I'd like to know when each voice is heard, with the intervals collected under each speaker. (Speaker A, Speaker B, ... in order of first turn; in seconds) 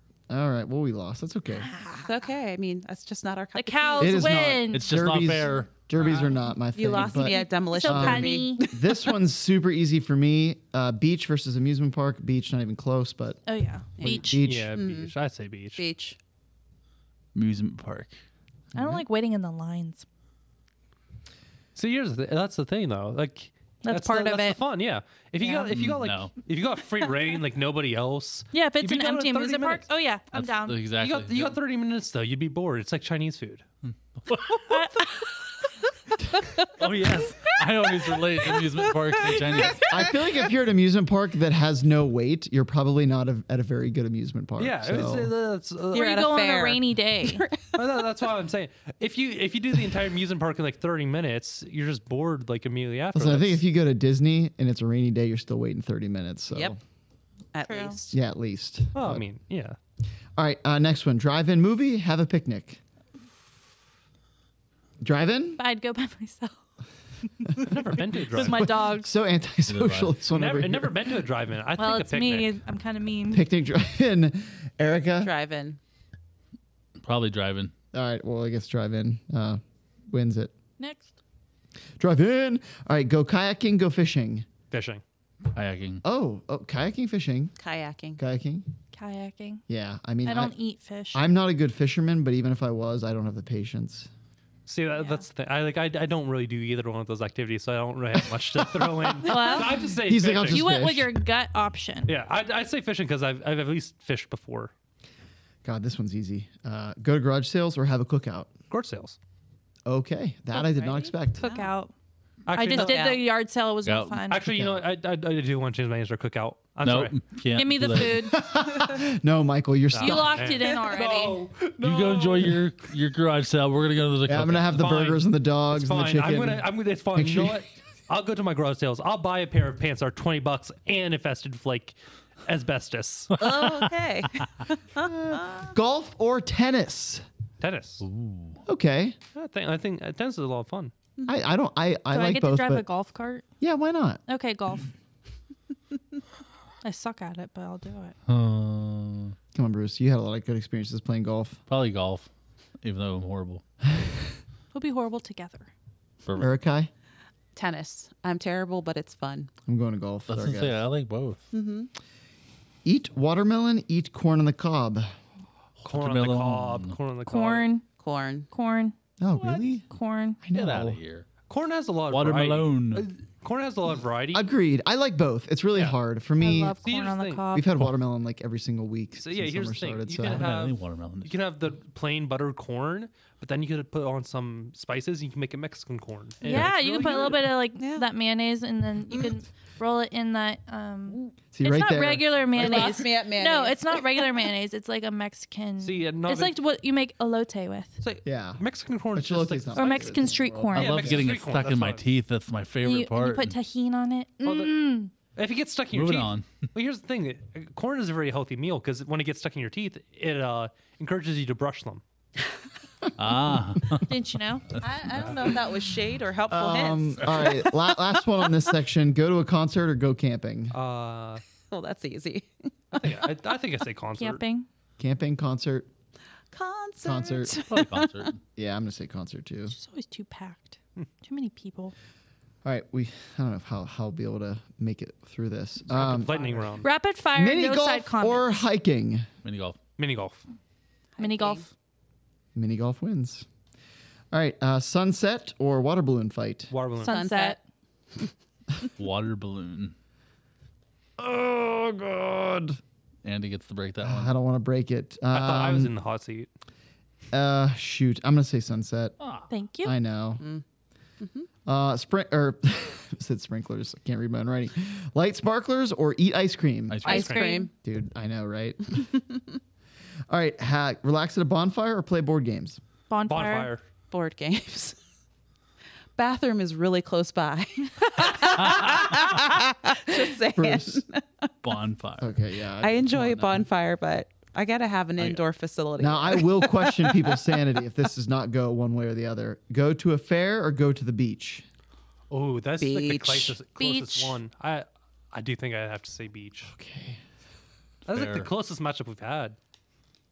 Speaker A: 0.3-1.7, 4.0-13.4, 14.0-14.8, 18.8-19.0, 39.8-45.3, 53.1-56.8, 58.1-59.2, 60.4-62.8, 65.0-65.6, 68.4-71.0, 73.3-75.3, 77.9-80.5, 82.0-84.5, 86.0-87.5, 88.2-88.7, 89.7-90.5, 91.1-94.1, 98.6-101.1, 105.6-108.5, 109.9-111.5, 114.5-114.8, 118.2-120.5, 121.6-122.6, 124.3-127.6, 135.0-137.2, 138.7-139.2, 141.3-142.9, 143.6-144.2, 149.5-151.6, 156.4-156.9, 159.7-160.8, 162.8-165.1, 169.2-169.9, 170.4-171.0, 174.3-176.8, 177.5-180.4, 191.5-192.9, 198.2-198.6, 199.1-201.3, 216.5-220.7, 225.0-225.9, 227.0-227.5, 228.6-229.8, 232.6-236.6, 237.3-239.3, 242.6-243.5, 244.3-246.7, 251.2-252.8, 254.0-255.9, 257.3-259.1, 259.8-260.4, 261.7-267.1, 267.8-269.1, 270.3-272.8, 280.6-281.0, 282.2-283.0, 286.0-291.6, 296.7-297.2
Speaker B: 1.8-2.1, 3.5-4.9, 7.1-8.6, 13.5-14.4, 18.7-20.1, 23.8-24.6, 25.4-25.7, 28.5-30.8, 34.7-35.5, 45.9-47.4, 57.7-58.0, 65.6-66.6, 68.3-69.1, 71.8-73.5, 80.8-81.1, 88.9-89.6, 90.2-91.2, 95.0-95.2, 99.3-99.9, 100.5-102.1, 111.4-111.9, 112.5-114.5, 117.5-118.5, 120.0-121.4, 142.1-143.4, 144.3-144.9, 146.8-148.2, 154.7-155.7, 167.3-167.9, 168.5-170.4, 176.4-177.7, 186.4-198.0, 199.7-201.1, 202.8-205.1, 214.1-214.8, 224.2-224.7, 229.7-231.9, 236.8-238.6, 241.2-241.7, 247.0-247.6, 259.5-259.9, 267.0-267.7, 273.1-273.7, 293.8-294.4
Speaker C: 2.0-4.5, 6.7-9.0, 14.0-15.1, 15.8-16.2, 45.9-48.0, 57.5-58.2, 75.2-75.8, 87.6-88.2, 110.5-111.7, 112.7-113.2, 133.4-135.7, 157.6-159.5, 161.5-161.9, 168.0-168.5, 187.0-188.1, 192.5-194.3, 214.8-217.7, 221.7-223.3, 226.5-228.3, 241.2-241.7, 247.0-247.6, 261.2-261.5, 267.1-267.7, 274.1-275.0, 276.2-281.5, 282.8-287.4, 292.8-293.6
Speaker D: 4.7-5.7, 17.3-18.1, 25.7-26.3, 30.3-31.6, 33.9-34.8, 36.8-40.0, 69.7-70.2, 77.0-77.7, 85.5-86.0, 113.8-114.2, 116.8-118.4, 121.8-125.2, 133.3-133.9, 138.0-138.6, 148.3-149.3, 151.7-152.3, 152.8-153.6, 156.3-156.5, 160.3-161.5, 165.8-167.0, 170.5-171.3, 172.1-173.1, 180.2-181.3, 186.5-186.7, 200.8-203.6, 205.9-206.5, 213.2-214.1, 214.7-215.6, 227.7-228.4, 239.4-239.8, 249.0-249.9, 253.2-254.3, 259.2-259.5, 266.9-267.4, 278.6-279.2, 281.6-282.3, 283.1-283.7, 298.1-298.5
Speaker E: 6.0-6.3, 14.4-15.8, 21.8-29.9, 31.0-33.6, 44.6-46.2, 47.8-53.6, 59.0-59.8, 67.6-68.7, 70.3-72.5, 84.7-85.0, 94.7-100.8, 102.1-104.7, 108.7-109.2, 112.5-113.1, 114.3-117.2, 119.9-121.8, 124.8-125.2, 125.7-131.9, 132.5-133.3, 137.6-138.1, 139.3-140.9, 165.8-167.7, 171.5-174.5, 176.8-177.4, 179.2-187.5, 195.8-196.6, 198.0-200.1, 200.7-202.0, 204.4-212.0, 220.7-221.4, 222.9-224.4, 235.9-236.9, 240.0-240.4, 246.7-247.2, 255.3-256.5, 267.1-267.5, 273.3-273.9, 292.3-296.7, 298.1-299.6